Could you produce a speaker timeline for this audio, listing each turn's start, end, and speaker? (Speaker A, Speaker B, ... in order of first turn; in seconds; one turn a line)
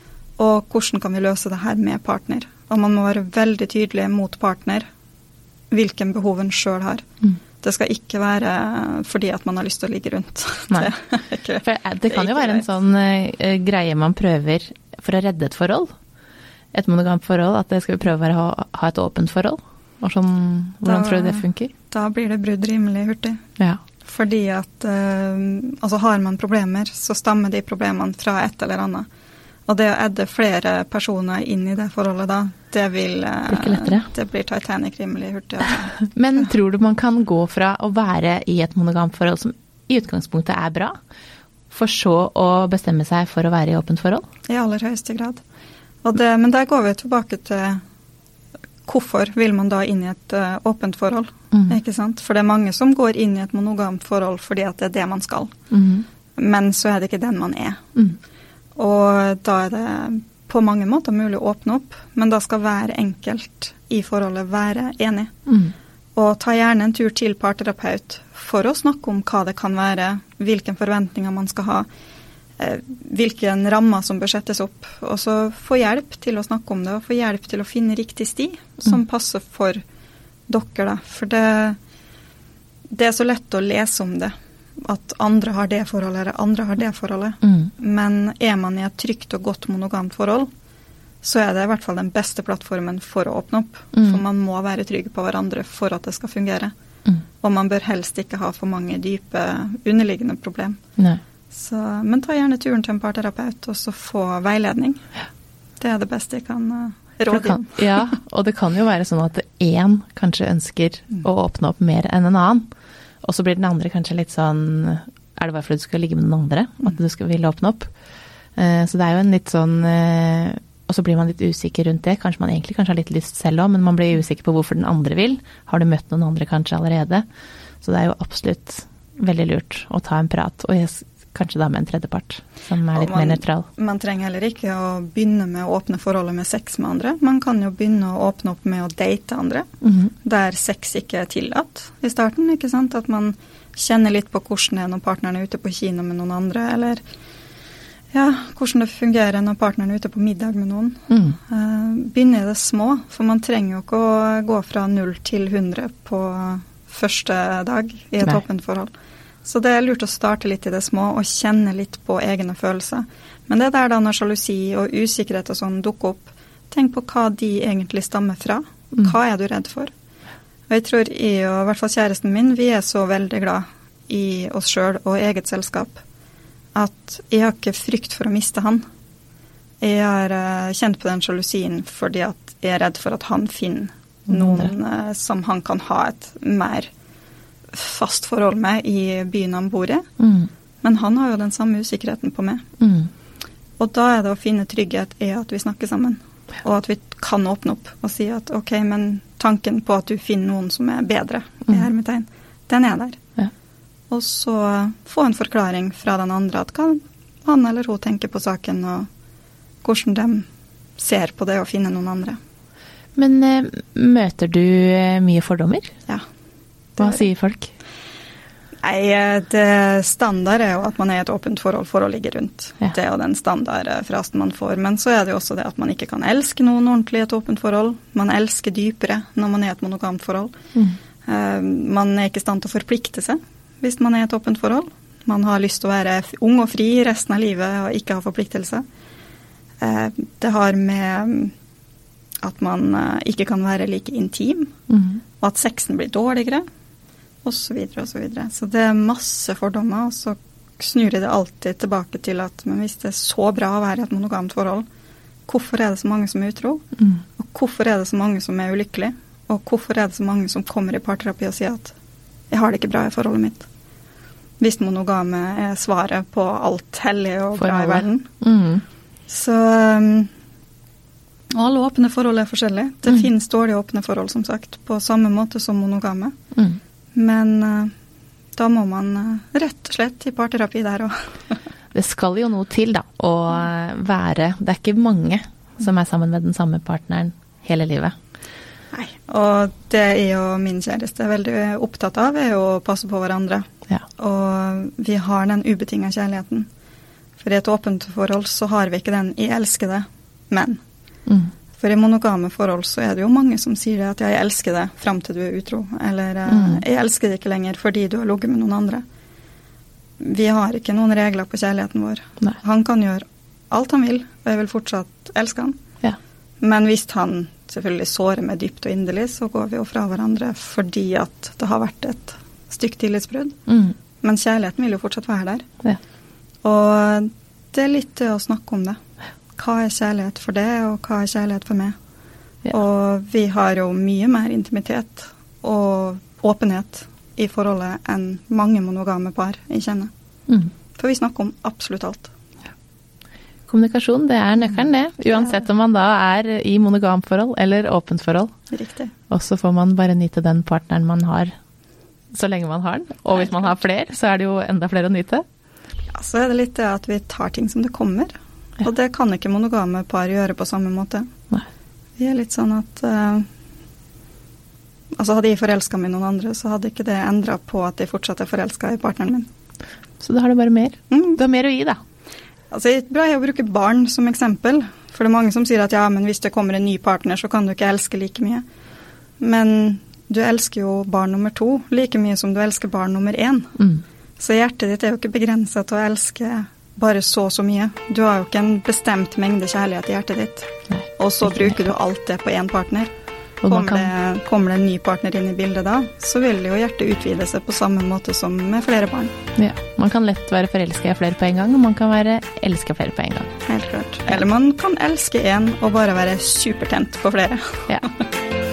Speaker A: 0.4-4.9
Speaker A: 5.7-7.1
Speaker A: 7.6-12.6
Speaker B: 11.6-15.9
Speaker B: 16.7-21.7
Speaker A: 20.8-23.4
Speaker A: 24.0-29.1
Speaker A: 29.7-36.5
Speaker B: 33.5-34.1
Speaker B: 36.1-41.0
Speaker B: 41.7-44.2
Speaker A: 44.5-45.4
Speaker A: 46.0-47.8
Speaker A: 48.9-55.5
Speaker B: 55.7-56.0
Speaker A: 56.4-57.8
Speaker A: 58.8-65.3
Speaker B: 65.5-65.7
Speaker A: 66.2-71.9
Speaker A: 72.6-79.8
Speaker A: 80.5-81.8
Speaker A: 82.9-90.5
Speaker B: 87.4-87.7
Speaker A: 91.2-96.7
Speaker B: 93.9-94.2
Speaker A: 97.4-100.8
Speaker A: 101.5-105.0
Speaker A: 105.8-107.8
Speaker B: 107.3-112.7
Speaker B: 113.2-117.9
Speaker B: 118.5-127.2
Speaker B: 127.8-133.6
Speaker A: 132.9-139.7
Speaker B: 139.8-140.1
Speaker A: 140.2-147.0
Speaker A: 148.1-158.9
Speaker B: 151.1-151.4
Speaker A: 159.4-169.9
Speaker A: 170.7-176.0
Speaker A: 176.7-178.8
Speaker A: 179.8-186.9
Speaker B: 184.3-184.7
Speaker A: 187.7-190.1
Speaker B: 190.2-190.5
Speaker A: 190.8-192.7
Speaker B: 192.8-193.1
Speaker A: 193.8-203.2
Speaker A: 204.1-209.1
Speaker A: 209.8-210.4
Speaker A: 211.0-212.4
Speaker B: 213.2-215.9
Speaker A: 216.9-217.2
Speaker B: 217.0-217.7
Speaker A: 218.8-230.5
Speaker A: 231.2-238.8
Speaker A: 239.8-241.5
Speaker A: 242.4-244.8
Speaker B: 244.9-245.2
Speaker A: 245.4-246.6
Speaker A: 247.4-254.8
Speaker A: 255.5-261.9
Speaker A: 262.5-263.6
Speaker A: 264.6-268.3
Speaker B: 267.6-268.8
Speaker A: 269.3-270.3
Speaker A: 271.5-276.4
Speaker A: 277.1-277.9
Speaker A: 278.6-281.6
Speaker B: 281.9-288.1
Speaker A: 288.9-296.7
Speaker A: 297.4-300.8
Speaker A: 301.8-309.0
Speaker B: 306.5-306.8
Speaker A: 310.2-315.8
Speaker A: 316.6-323.6
Speaker B: 323.7-323.9
Speaker A: 324.2-325.7
Speaker A: 326.6-329.0
Speaker A: 329.6-331.9
Speaker A: 332.7-340.1
Speaker A: 340.9-342.3
Speaker B: 343.7-348.5
Speaker A: 348.7-349.1
Speaker B: 349.3-351.5
Speaker B: 352.3-355.4
Speaker A: 356.1-361.3
Speaker A: 362.2-363.5
Speaker A: 365.1-369.5
Speaker B: 370.2-372.0
Speaker A: 371.1-371.4
Speaker A: 372.7-378.6
Speaker A: 379.4-383.8
Speaker A: 384.4-393.1
Speaker B: 390.9-391.8
Speaker B: 393.6-394.1
Speaker A: 393.6-399.3
Speaker B: 399.6-403.5
Speaker A: 403.7-408.1